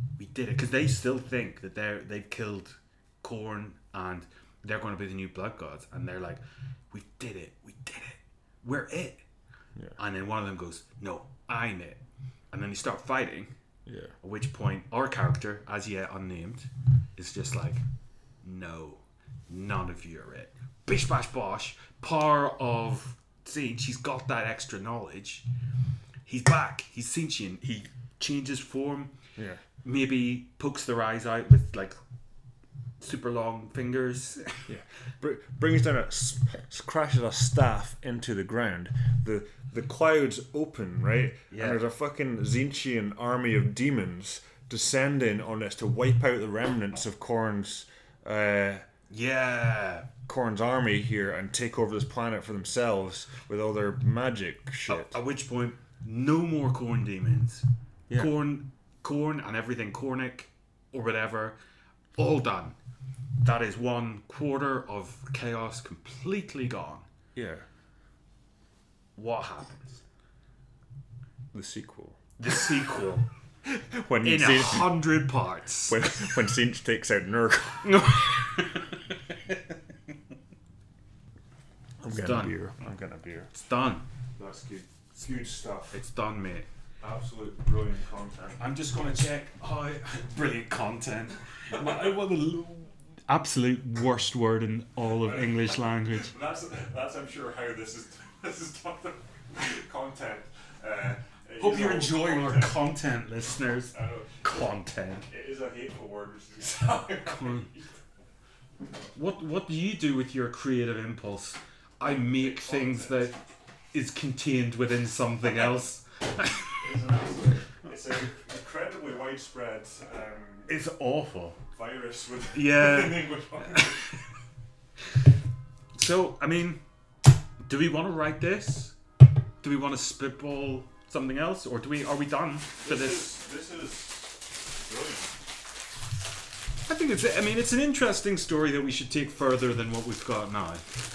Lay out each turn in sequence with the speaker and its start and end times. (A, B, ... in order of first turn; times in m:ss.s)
0:00.2-0:09.2 A
0:10.0-0:12.0 A
0:12.5-0:13.5 A
0:13.9-0:14.1 B
0:14.2-0:17.8 A
0:18.4-0:25.5 A
0:26.3-0:29.1 A
0:29.4-0:29.6 B
0:29.8-0:31.9 A
0:33.0-0:34.7 A
0:34.7-0:48.8 B
0:41.5-0:41.8 A
0:49.1-0:50.1 A
0:50.3-0:55.1 B
0:54.9-1:01.6 A
1:02.2-1:02.8 A
1:03.4-1:07.1 A
1:07.4-1:07.7 B
1:09.2-1:10.0 A
1:11.5-1:12.2 B
1:12.4-1:13.3 A
1:13.6-1:15.1 B
1:14.2-1:16.0 A
1:15.9-1:18.0 B
1:17.8-1:19.8 A
1:22.0-1:23.5 B
1:22.1-1:22.6 A
1:23.5-1:24.0 A
1:24.4-1:26.0 B
1:25.9-1:26.7 A
1:27.0-1:28.6 B
1:28.6-1:36.3 A
1:31.7-1:32.2 B
1:35.2-1:42.8 B
1:41.6-1:45.3 A
1:43.9-1:44.7 B
1:45.3-1:47.9 B
1:47.2-1:47.7 A
1:49.2-1:53.4 A
1:52.0-1:53.3 B
1:53.9-1:56.8 A
1:56.8-2:00.7 B
2:00.7-2:01.6 A
2:01.8-2:04.1 B
2:02.5-2:04.2 A
2:05.9-2:06.8 A
2:07.7-2:09.0 A
2:09.6-2:13.4 A
2:12.8-2:15.4 B
2:16.8-2:20.9 A